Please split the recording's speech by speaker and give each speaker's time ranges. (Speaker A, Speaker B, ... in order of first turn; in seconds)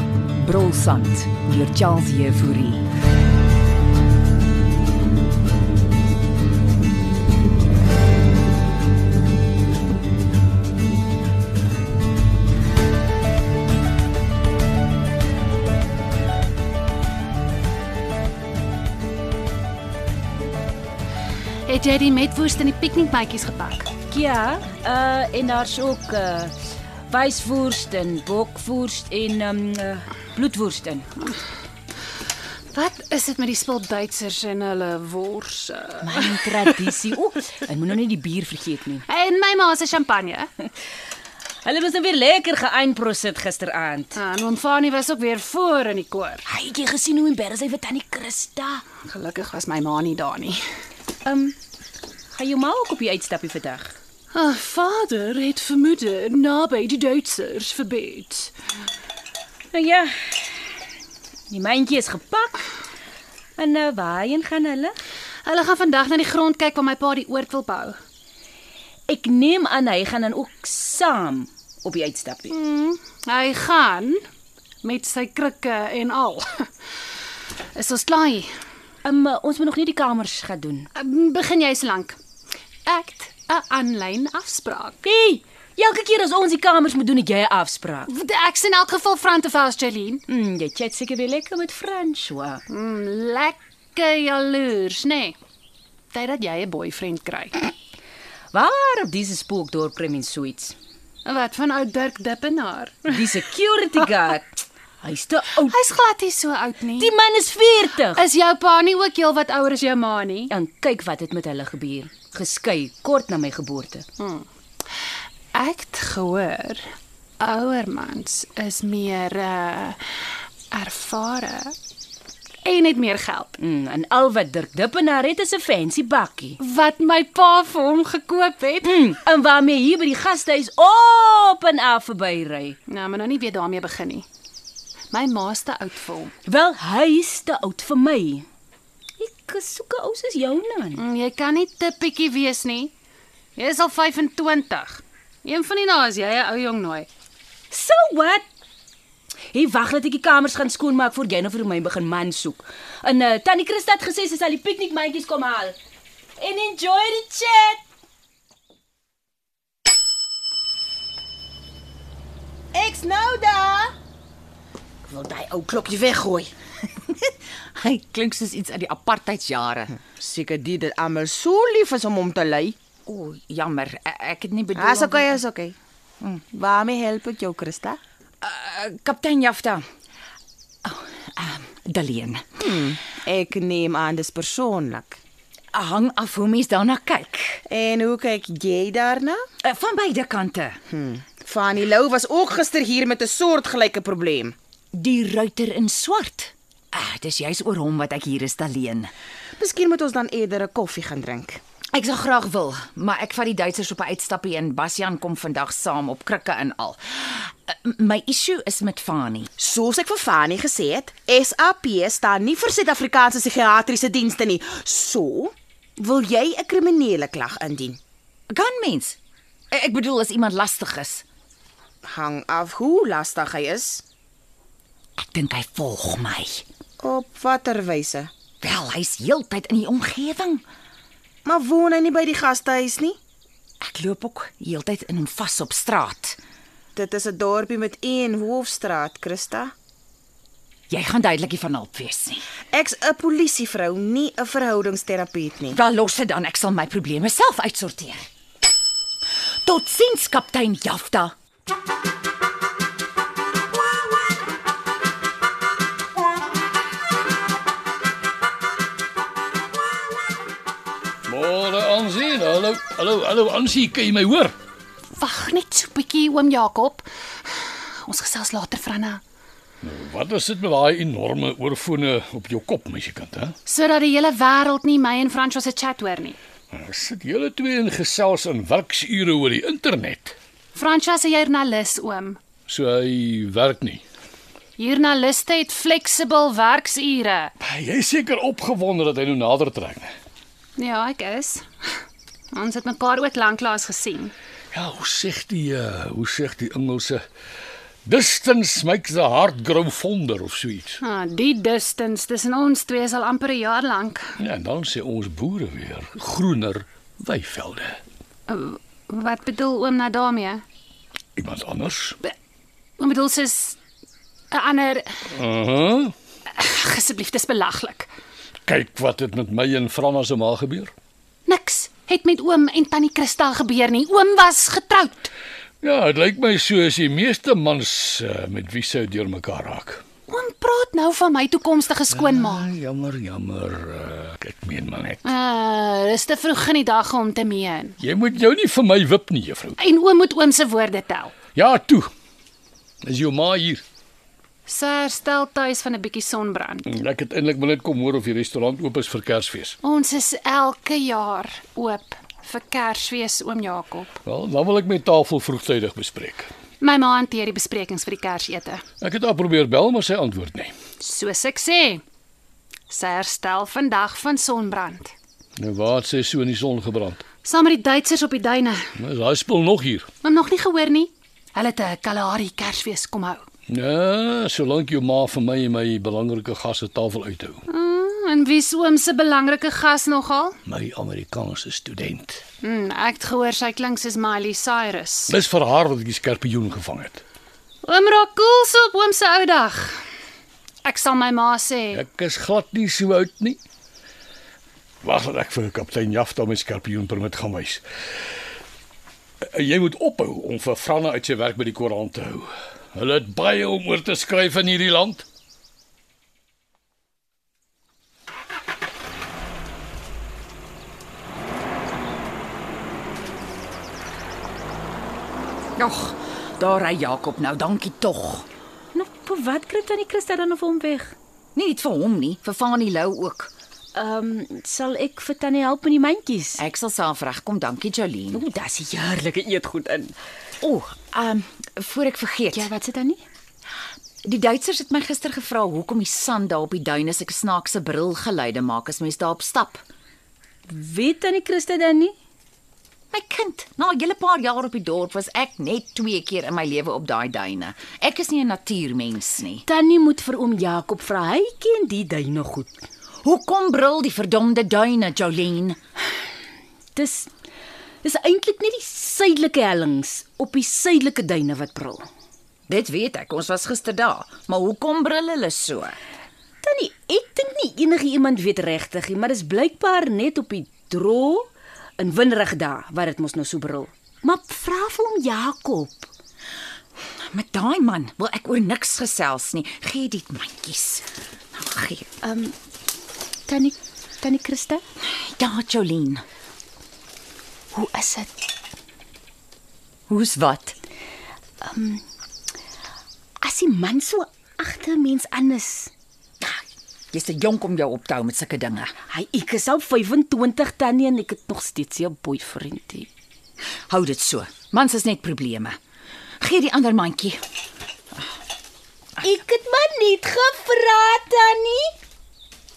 Speaker A: 0.4-2.8, 189.9-190.5
Speaker B: 21.7-23.9, 32.7-36.3, 39.0-40.5, 44.1-46.4, 49.0-50.6, 54.3-58.5, 65.4-68.0, 72.5-74.2, 74.8-76.7, 77.7-78.5, 80.9-82.2, 82.8-85.0, 88.1-90.2, 92.7-95.4, 96.1-97.7, 101.2-103.3, 105.6-107.1, 108.1-110.5, 114.2-114.5, 115.5-116.8, 117.4-120.0, 120.7-121.7, 122.6-123.6, 126.6-129.0, 132.9-134.2, 135.1-136.3, 140.9-142.9, 143.6-147.1, 265.2-269.2, 273.6-276.4, 280.7-282.4, 284.8-287.5, 290.8-291.6, 292.5-294.3, 301.0-304.2, 308.5-310.6, 313.0-313.8, 314.5-315.1, 316.5-318.1, 321.4-325.3, 330.3-332.7, 335.2-338.0, 339.8-341.3, 344.7-346.9, 349.8-354.1, 356.8-358.8, 361.0-362.0, 362.9-365.1, 367.4-368.9, 370.2-373.4, 377.7-380.6, 382.6-385.4, 387.8-390.0, 390.8-392.0
Speaker C: 24.1-26.5, 27.1-31.2, 36.0-39.0, 41.6-44.2, 46.5-48.8, 51.2-51.5, 52.3-54.0, 59.7-60.5, 61.5-62.6, 63.6-65.0, 69.1-72.5, 79.0-80.9, 85.0-88.1, 90.3-92.6, 98.5-100.8, 103.1-104.5, 105.0-105.8, 107.0-108.2, 110.5-114.0, 123.6-126.6, 128.8-132.8, 136.4-138.4, 139.2-141.0, 147.7-148.4, 149.5-155.8, 156.4-157.8, 418.9-421.1, 423.9-426.6, 428.3-430.1, 432.5-433.2, 440.7-442.1, 449.6-452.8, 456.9-457.3, 458.0-462.1, 466.6-476.1, 482.2-482.5, 483.5-484.8, 487.7-488.3, 491.6-492.0, 493.4-495.9, 499.1-503.1, 509.2-511.9
Speaker D: 162.7-163.9, 165.1-166.5, 170.0-172.8, 174.7-175.8, 176.5-178.0, 182.6-185.2, 187.7-189.4, 190.9-194.6, 199.6-201.6, 209.6-218.0, 222.0-224.0, 227.0-228.3, 231.4-233.2, 236.9-239.7, 242.7-245.8
Speaker E: 167.2-169.9, 173.1-175.4, 178.4-179.8, 180.8-182.4, 185.7-187.6, 189.6-190.8, 194.9-199.1, 201.9-209.5, 218.5-219.2, 219.7-221.2, 225.2-226.6, 228.6-230.6, 233.8-236.4, 240.9-242.4, 245.7-248.3, 249.6-251.3, 415.8-418.4, 421.5-423.5, 426.6-428.4, 430.6-432.7, 434.2-439.8, 443.1-449.6, 453.2-455.8, 462.7-465.9, 477.3-482.1, 485.0-486.2, 490.1-490.7, 496.4-498.9, 503.9-505.8, 506.4-507.4
Speaker F: 261.3-264.5, 269.8-273.5, 276.7-280.3, 282.7-284.0, 287.6-290.1, 294.7-297.2, 298.1-301.0, 304.4-308.0, 311.4-312.2, 315.3-316.1, 318.7-320.9, 325.8-330.0, 332.1-335.3, 338.0-339.8, 341.5-342.1, 343.0-343.8, 346.9-349.8, 354.2-356.5, 359.0-360.7, 365.6-367.2, 369.0-370.1, 373.7-377.6, 380.7-382.4, 385.3-387.2, 391.9-393.6, 395.0-397.8, 399.5-405.2